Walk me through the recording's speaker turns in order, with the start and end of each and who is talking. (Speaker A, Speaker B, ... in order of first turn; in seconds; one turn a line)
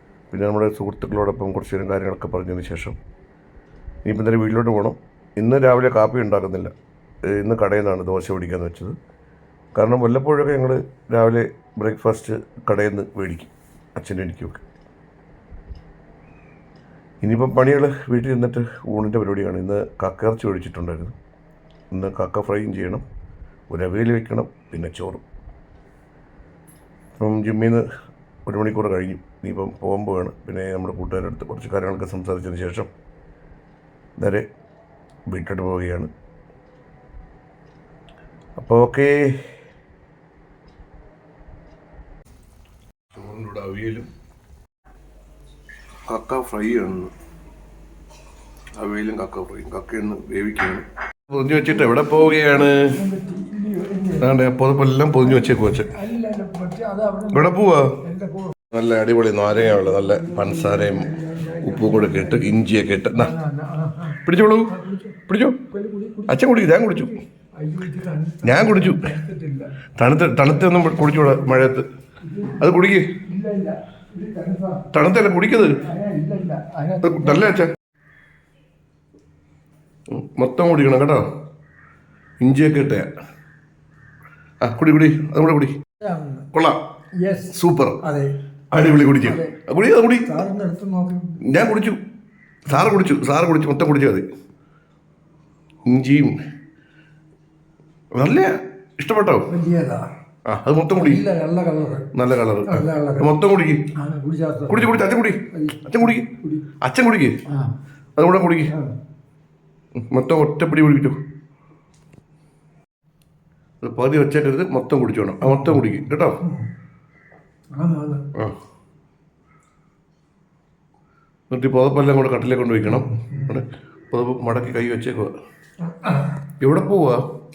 Speaker A: 0.3-3.0
Speaker A: 4.0-6.7
Speaker A: 7.2-8.9
Speaker A: 9.7-14.6
Speaker A: 17.2-21.1
Speaker A: 21.9-23.0
Speaker A: 23.7-25.2
Speaker A: 27.2-27.8
Speaker A: 28.4-32.9
Speaker A: 34.2-34.4
Speaker A: 35.3-36.1
Speaker A: 38.6-39.5
Speaker A: 43.1-44.1
Speaker A: 46.1-47.1
Speaker A: 48.8-53.0
Speaker B: 51.9-54.3
Speaker A: 54.2-56.0
Speaker B: 55.2-58.6
Speaker A: 57.3-58.0
Speaker A: 58.7-61.1
Speaker B: 59.5-62.6
Speaker A: 61.6-63.3
Speaker B: 63.1-65.2
Speaker A: 64.2-64.7
Speaker A: 65.3-65.6
Speaker B: 65.7-69.8
Speaker A: 66.3-67.2
Speaker A: 68.4-69.1
Speaker A: 70.0-71.9
Speaker B: 70.7-71.7
Speaker B: 72.2-74.9
Speaker A: 72.6-73.1
Speaker A: 74.9-75.8
Speaker B: 75.8-77.5
Speaker A: 77.0-77.7
Speaker A: 80.1-81.2
Speaker A: 82.4-83.1
Speaker A: 84.6-85.7
Speaker B: 86.0-86.5
Speaker A: 86.5-86.8
Speaker B: 87.2-88.4
Speaker A: 87.5-88.0
Speaker A: 88.7-90.3
Speaker B: 89.1-89.6
Speaker B: 90.2-91.4
Speaker A: 91.4-92.0
Speaker A: 92.7-94.2
Speaker A: 95.9-96.3
Speaker A: 98.2-99.5
Speaker B: 99.5-100.0
Speaker A: 100.5-101.2
Speaker B: 100.9-102.1
Speaker A: 102.1-103.9
Speaker B: 102.7-103.3
Speaker B: 103.9-106.7
Speaker A: 104.7-106.3
Speaker A: 106.8-107.4
Speaker B: 107.5-107.7
Speaker A: 108.2-108.7
Speaker A: 110.0-111.2
Speaker A: 113.8-116.4
Speaker B: 115.4-115.8
Speaker B: 116.4-116.7
Speaker B: 117.8-118.3
Speaker A: 121.5-125.3
Speaker B: 122.8-123.6
Speaker B: 125.8-126.4
Speaker A: 126.6-127.2